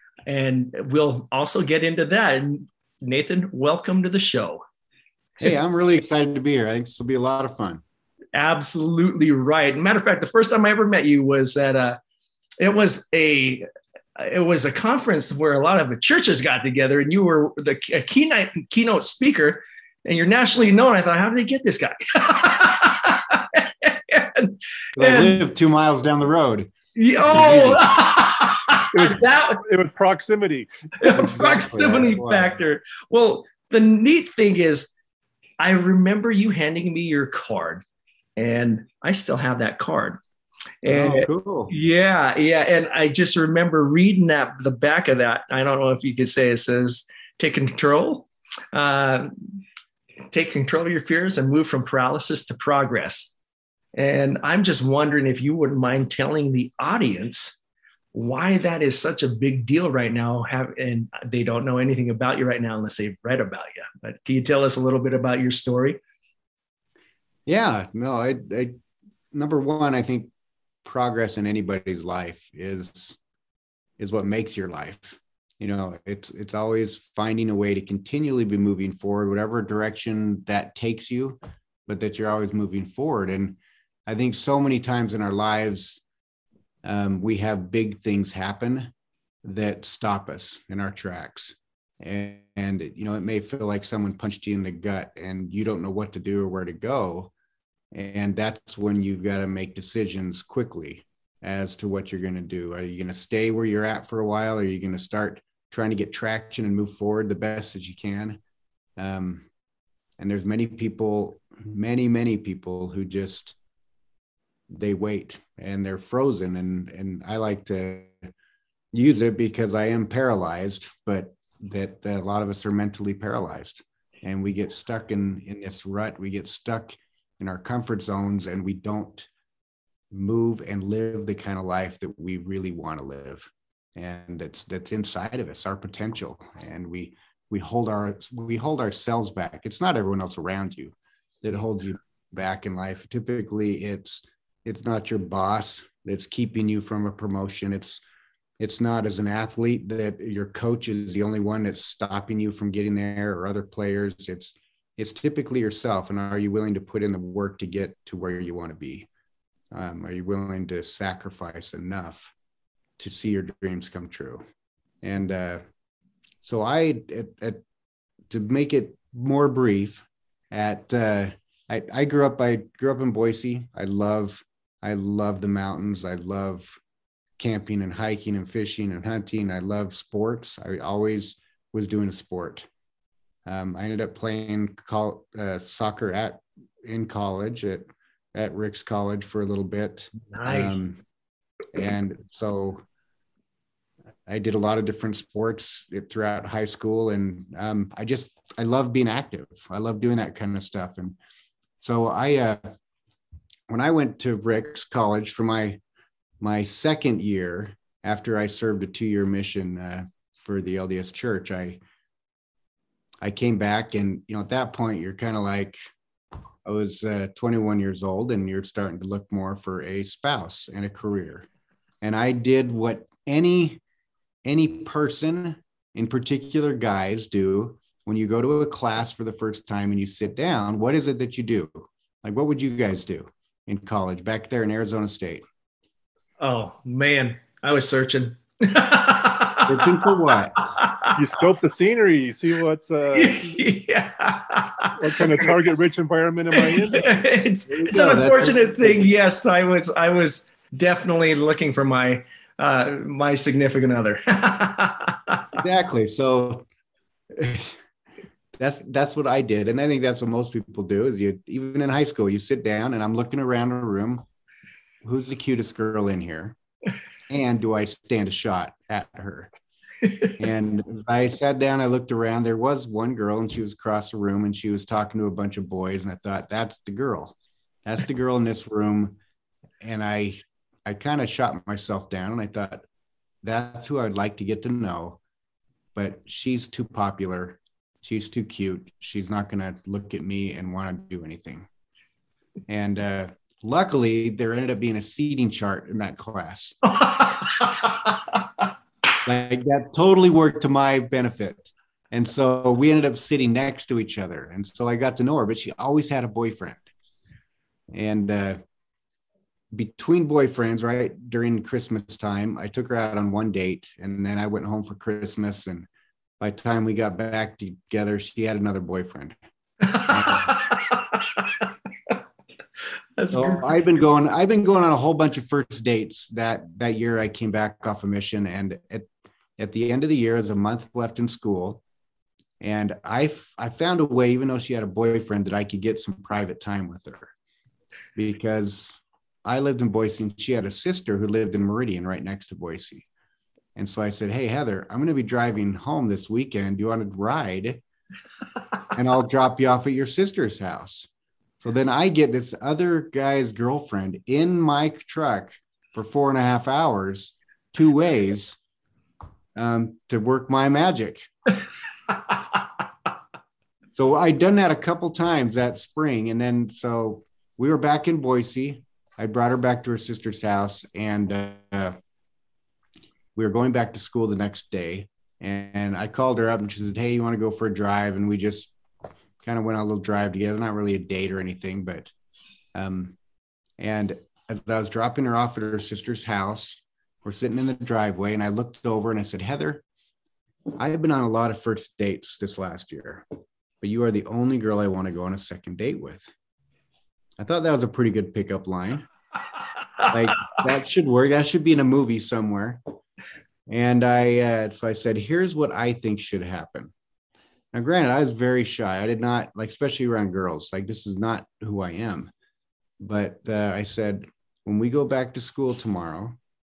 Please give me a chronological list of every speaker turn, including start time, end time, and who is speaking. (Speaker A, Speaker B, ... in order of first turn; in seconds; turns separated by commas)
Speaker A: 0.3-4.6, Speaker B: 5.4-7.8, Speaker A: 8.3-12.0, Speaker A: 12.6-13.7, Speaker A: 14.2-25.4, Speaker B: 25.0-27.9, Speaker A: 26.9-29.6, Speaker C: 28.9-30.7, Speaker A: 31.0-34.9, Speaker B: 31.1-32.6, Speaker A: 35.6-37.8, Speaker A: 38.4-40.2, Speaker A: 40.8-49.3, Speaker B: 40.9-41.7, Speaker A: 50.3-53.3, Speaker A: 53.9-57.6, Speaker A: 58.1-66.0, Speaker B: 67.5-68.8, Speaker B: 69.3-70.3, Speaker B: 70.8-73.2, Speaker B: 74.0-86.0, Speaker B: 86.8-88.9, Speaker B: 89.4-97.3, Speaker B: 97.9-108.4, Speaker B: 109.0-109.5, Speaker B: 110.2-113.6, Speaker B: 114.7-118.3, Speaker B: 118.9-129.3, Speaker B: 130.1-148.0, Speaker B: 148.6-159.1, Speaker B: 159.7-162.3, Speaker B: 163.0-164.4, Speaker B: 165.0-165.6, Speaker B: 166.4-167.6, Speaker B: 168.3-176.8, Speaker B: 177.4-182.7, Speaker B: 183.4-191.0, Speaker A: 190.3-190.8, Speaker B: 191.7-192.8, Speaker B: 194.3-201.2, Speaker B: 201.8-202.6, Speaker B: 203.7-205.8, Speaker B: 206.4-211.8, Speaker B: 213.2-215.8, Speaker B: 216.6-221.4, Speaker B: 222.0-223.8, Speaker B: 224.4-235.4, Speaker A: 236.4-241.1, Speaker B: 239.7-240.6, Speaker C: 241.1-243.6, Speaker A: 243.1-245.5, Speaker C: 245.0-247.2, Speaker A: 246.5-255.4, Speaker B: 247.7-249.1, Speaker B: 255.6-256.7, Speaker B: 257.3-257.8, Speaker B: 258.6-264.2, Speaker B: 265.0-266.6, Speaker B: 267.3-269.5, Speaker A: 270.0-270.3, Speaker B: 270.4-279.2, Speaker B: 279.8-282.9, Speaker B: 283.4-285.2, Speaker B: 285.9-291.7, Speaker B: 292.7-296.8, Speaker A: 296.9-298.1, Speaker B: 299.2-306.8, Speaker B: 307.9-308.6, Speaker B: 309.7-315.9, Speaker B: 316.4-319.4, Speaker A: 319.9-321.6, Speaker B: 320.0-320.6, Speaker A: 323.2-323.8, Speaker B: 323.3-331.8, Speaker B: 332.6-337.3, Speaker B: 338.1-343.1, Speaker B: 343.8-347.8, Speaker B: 348.9-351.1, Speaker B: 351.6-358.6, Speaker B: 359.5-361.3, Speaker B: 363.9-371.9, Speaker B: 373.3-378.7, Speaker B: 379.4-382.1, Speaker B: 382.7-383.2, Speaker B: 383.8-389.8, Speaker B: 390.7-393.2, Speaker B: 393.8-396.3, Speaker B: 397.4-399.1, Speaker B: 400.1-402.8, Speaker B: 403.7-406.9, Speaker B: 407.7-412.3, Speaker B: 413.0-416.4